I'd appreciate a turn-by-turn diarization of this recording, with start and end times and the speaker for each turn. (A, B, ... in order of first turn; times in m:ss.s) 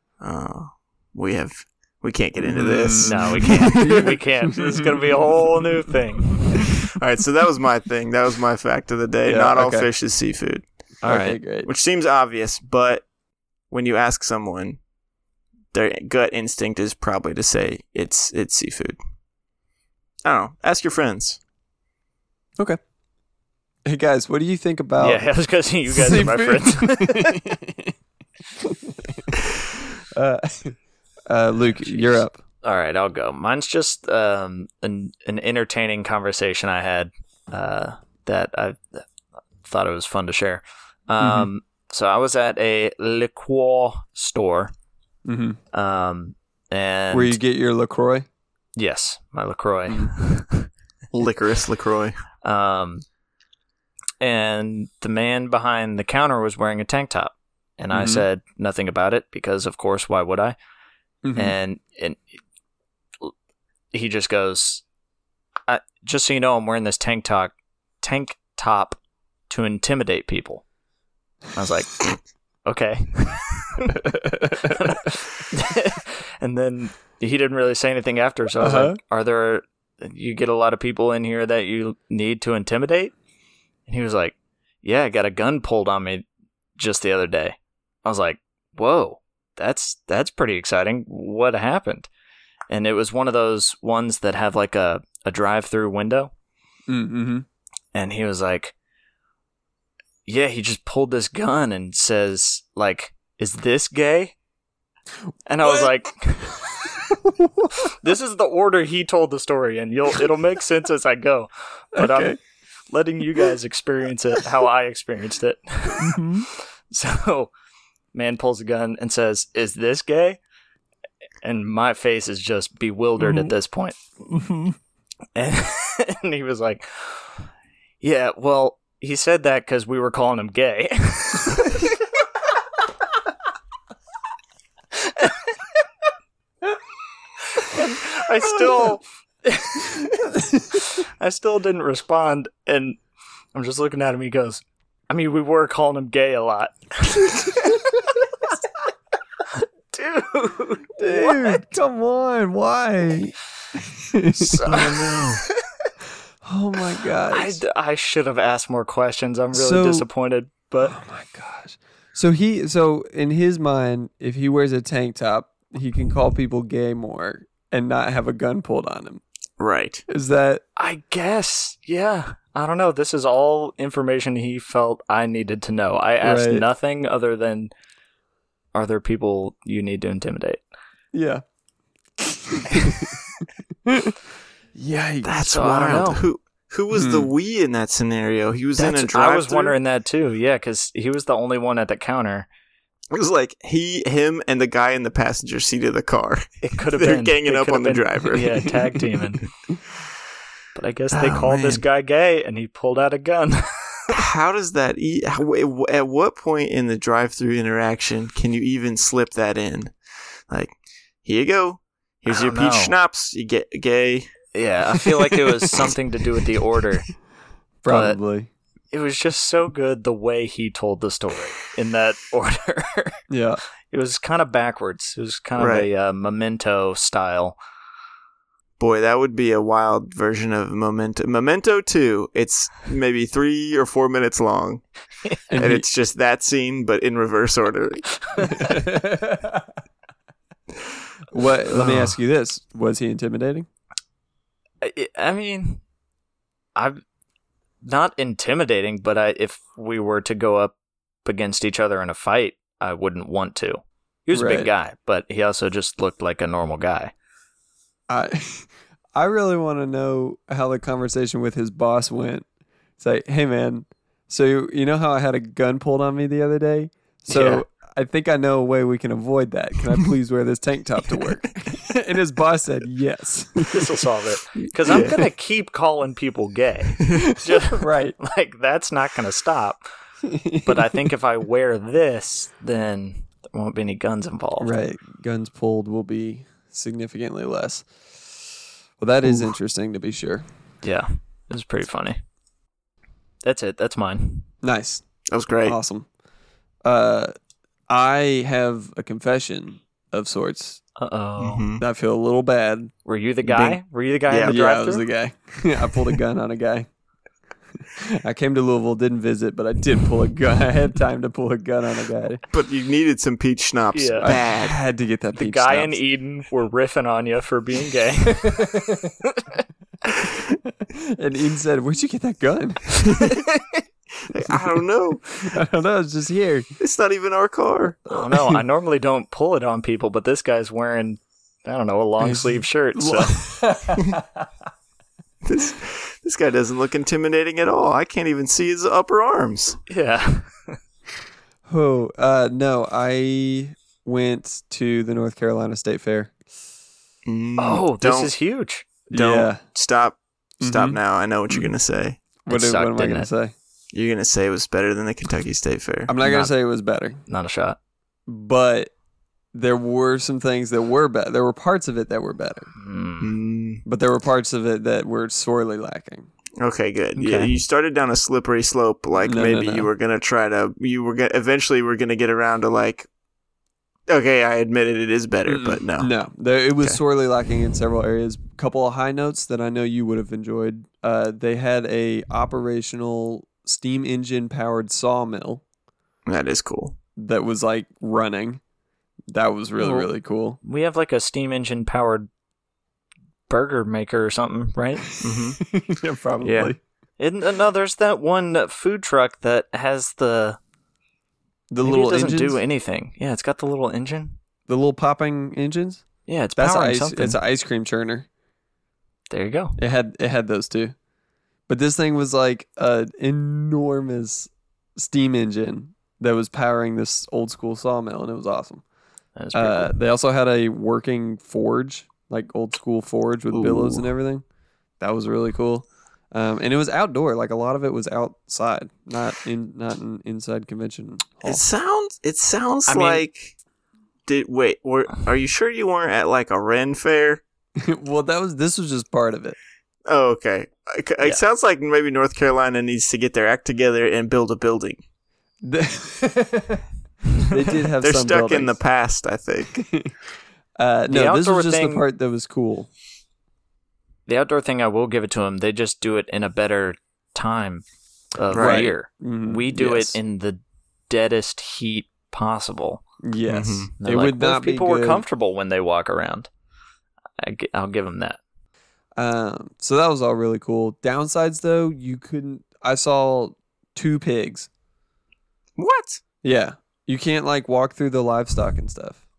0:00.2-0:04.2 A
0:02.4-0:05.6 B
0:03.0-0:06.7 C
0:07.0-0:13.0 A
0:09.2-0:09.9 B
0:11.0-0:11.7 B
0:13.7-0:14.8 A
0:15.7-0:19.0 A
0:20.2-0:21.4 A
0:23.8-0:25.2 B
0:25.0-0:27.4 C
0:25.9-0:28.0 B
0:28.6-0:29.4 B
0:30.1-0:32.4 B
0:31.8-0:39.0 C
0:39.6-0:44.7 C
0:41.2-0:41.5 B
0:45.2-0:45.6 B
0:45.7-0:47.4 C
0:47.1-0:48.2 B
0:48.8-0:50.7 C
0:51.1-0:52.2 A
0:52.4-0:53.0 C
0:54.2-1:00.6 C
0:57.9-0:58.2 B
1:01.2-1:01.5 B
1:01.4-1:02.2 C
1:03.9-1:04.8 C
1:05.7-1:09.0 C
1:09.5-1:10.6 C
1:11.5-1:23.1 C
1:18.6-1:19.0 B
1:23.9-1:26.2 C
1:26.8-1:32.1 C
1:32.7-1:36.3 C
1:36.9-1:37.4 B
1:37.9-1:38.7 C
1:40.2-1:44.3 C
1:45.5-1:47.0 C
1:45.6-1:45.9 B
1:47.1-1:47.9 B
1:47.8-1:52.4 C
1:51.9-1:52.4 B
1:52.9-1:57.5 C
1:55.9-1:56.5 B
1:58.1-2:00.4 C
2:01.4-2:04.0 C
2:03.2-2:03.5 B
2:04.3-2:04.8 B
2:05.4-2:07.4 C
2:08.0-2:12.0 C
2:15.0-2:15.5 C
2:17.5-2:23.0 C
2:23.5-2:28.2 C
2:29.9-2:31.7 C
2:31.0-2:34.6 B
2:34.4-2:35.4 A
2:34.5-2:35.9 C
2:36.4-2:37.6 B
2:37.3-2:41.0 C
2:39.5-2:40.1 B
2:40.8-2:49.2 B
2:49.6-2:50.0 A
2:50.1-2:50.6 B
2:50.8-2:57.7 C
2:56.2-2:56.6 B
2:58.7-3:00.6 C
3:01.1-3:01.4 B
3:02.2-3:03.2 B
3:03.8-3:04.2 B
3:04.7-3:05.6 B
3:05.2-3:09.8 A
3:05.4-3:06.2 C
3:06.9-3:07.3 B
3:08.8-3:12.5 C
3:13.1-3:18.8 A
3:16.6-3:19.4 C
3:20.7-3:24.2 C
3:21.1-3:21.8 A
3:24.1-3:29.9 A
3:30.5-3:34.3 A
3:32.3-3:32.9 C
3:34.5-3:37.1 C
3:37.8-3:38.5 B
3:37.9-3:38.2 C
3:38.9-3:43.2 C
3:43.3-3:43.6 B
3:43.9-3:47.6 C
3:45.6-3:45.9 A
3:48.8-3:54.8 A
3:55.5-3:55.8 B
3:55.5-3:58.1 A
3:58.4-3:58.8 C
3:58.5-3:59.6 B
4:01.3-4:03.7 B
4:04.8-4:05.8 C
4:06.8-4:07.0 C
4:07.8-4:17.1 C
4:14.3-4:14.7 B
4:18.1-4:22.4 B
4:23.0-4:34.0 B
4:27.3-4:27.6 C
4:33.6-4:39.8 C
4:34.8-4:35.2 A
4:37.4-4:38.2 B
4:40.2-4:41.1 B
4:40.6-4:44.7 C
4:44.6-4:47.9 B
4:49.0-4:50.4 B
4:50.8-4:52.2 C
4:53.4-4:54.5 C
4:54.6-4:55.0 B
4:55.3-4:55.8 A
4:55.6-4:56.1 B
4:56.8-4:57.3 B
4:57.9-5:00.8 B
5:01.0-5:01.6 C
5:01.4-5:01.8 A
5:01.8-5:02.9 B
5:03.0-5:05.0 C
5:03.4-5:03.8 A
5:04.3-5:04.6 A
5:04.5-5:06.9 B
5:08.0-5:12.4 B
5:12.5-5:14.8 A
5:13.9-5:14.3 C
5:14.2-5:16.0 B
5:15.4-5:19.6 C
5:18.5-5:18.9 B
5:20.8-5:23.2 B
5:23.1-5:23.8 C
5:24.3-5:25.2 A
5:25.4-5:26.7 B
5:26.8-5:28.0 A
5:28.1-5:33.6 C
5:28.1-5:28.6 B
5:32.2-5:34.4 B
5:35.4-5:39.8 A
5:39.9-5:40.8 C
5:41.7-5:46.3 B
5:47.2-5:48.3 A
5:47.6-5:48.8 C
5:49.1-5:49.6 B
5:49.1-5:52.2 A
5:50.6-5:51.0 B
5:52.4-5:53.5 B
5:52.5-5:53.3 C
5:53.9-5:56.1 A
5:56.1-5:57.2 B
5:56.2-5:56.5 C
5:57.3-5:57.8 C
5:58.3-5:58.9 B
5:59.5-6:02.7 B
6:02.8-6:03.3 C
6:03.2-6:03.8 A
6:03.8-6:06.3 B
6:06.6-6:13.1 A
6:07.2-6:07.5 C
6:09.2-6:09.9 B
6:14.1-6:16.1 A
6:15.5-6:25.6 B
6:26.3-6:26.9 A
6:27.2-6:28.6 B
6:29.3-6:30.6 B
6:29.8-6:30.1 C
6:30.6-6:32.3 C
6:33.5-6:35.2 C
6:35.2-6:35.6 A
6:35.6-6:36.8 B
6:36.4-6:36.7 A
6:37.2-6:40.6 C
6:41.7-6:42.6 B
6:41.8-6:44.4 C
6:44.7-6:46.0 B
6:46.3-6:47.4 C
6:46.6-6:48.3 B
6:49.3-6:49.8 C
6:49.8-6:50.9 B
6:51.7-6:58.8 B
6:59.4-6:59.9 C
6:59.5-7:04.4 B
7:03.5-7:04.1 A
7:05.0-7:11.6 B
7:11.4-7:13.5 A
7:12.9-7:13.2 C
7:14.2-7:17.4 A
7:17.8-7:19.6 B
7:20.0-7:25.0 A
7:25.6-7:26.9 B
7:27.5-7:28.8 B
7:28.0-7:29.8 A
7:29.7-7:30.1 B
7:30.8-7:32.9 B
7:31.1-7:32.0 C
7:34.3-7:37.8 C
7:38.4-7:43.0 C
7:38.5-7:38.9 A
7:38.6-7:40.2 B
7:43.2-7:45.2 B
7:43.5-7:43.9 A
7:44.0-7:46.5 C
7:47.4-7:48.4 C
7:49.2-7:54.7 B
7:55.8-7:56.2 A
7:56.4-7:59.2 B